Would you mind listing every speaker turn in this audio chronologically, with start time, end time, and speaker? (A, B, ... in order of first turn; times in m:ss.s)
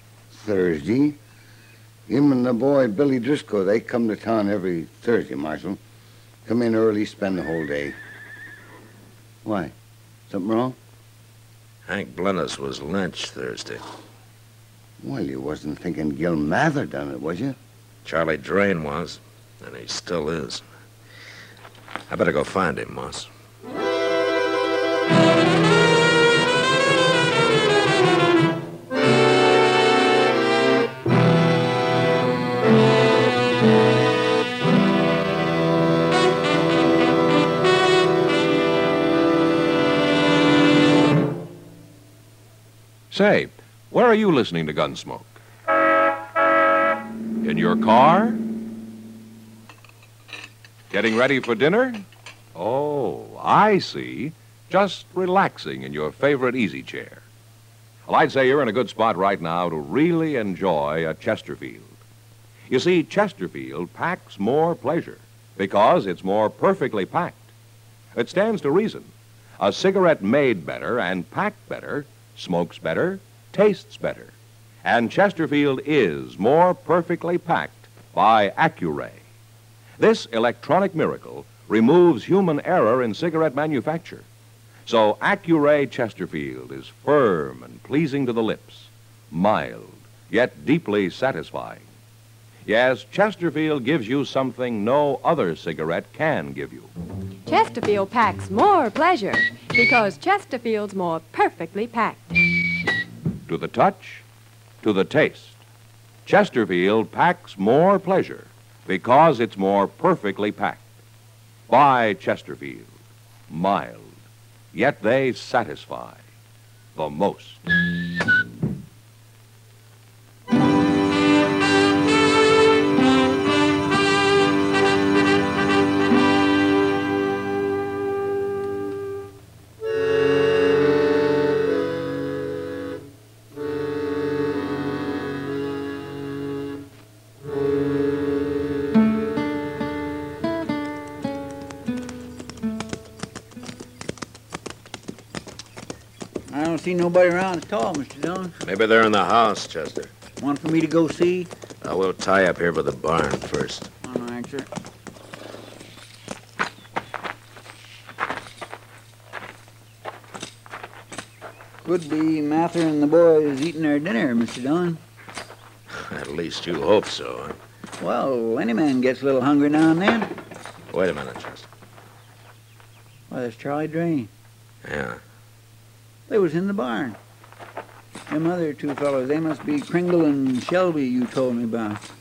0:00.3-0:01.2 A
0:02.1-0:05.8 A
0:06.4-0:08.0 A
0:09.4-0:09.7 A
0:10.3-0:10.8 A
0:11.8-0:13.8 B
0:15.0-0:17.6 A
0:18.0-0:20.6 B
0:22.1-0:23.3 B
0:43.1-0:45.4 C
0:47.4-0:48.4 C
0:50.9-0:52.0 C
0:52.5-0:57.2 C
0:58.1-1:02.0 C
1:02.7-1:07.5 C
1:08.1-1:19.2 C
1:20.0-1:24.2 C
1:24.8-1:31.8 C
1:32.6-1:36.9 C
1:37.5-1:42.2 D
1:43.5-1:44.2 C
1:44.8-1:45.6 C
1:46.2-1:50.8 C
1:51.7-1:52.9 C
1:53.5-1:54.1 C
1:54.7-1:56.2 C
1:56.9-1:57.6 C
2:26.5-2:28.6 E
2:28.6-2:30.1 B
2:30.4-2:31.5 E
2:31.8-2:33.9 B
2:34.0-2:34.7 E
2:41.8-2:45.0 E
2:45.9-2:47.6 B
2:48.0-2:50.3 E
2:50.9-2:51.7 B
2:53.3-2:54.3 E
2:54.8-2:55.2 B
2:56.3-2:57.2 E
2:58.3-3:02.0 E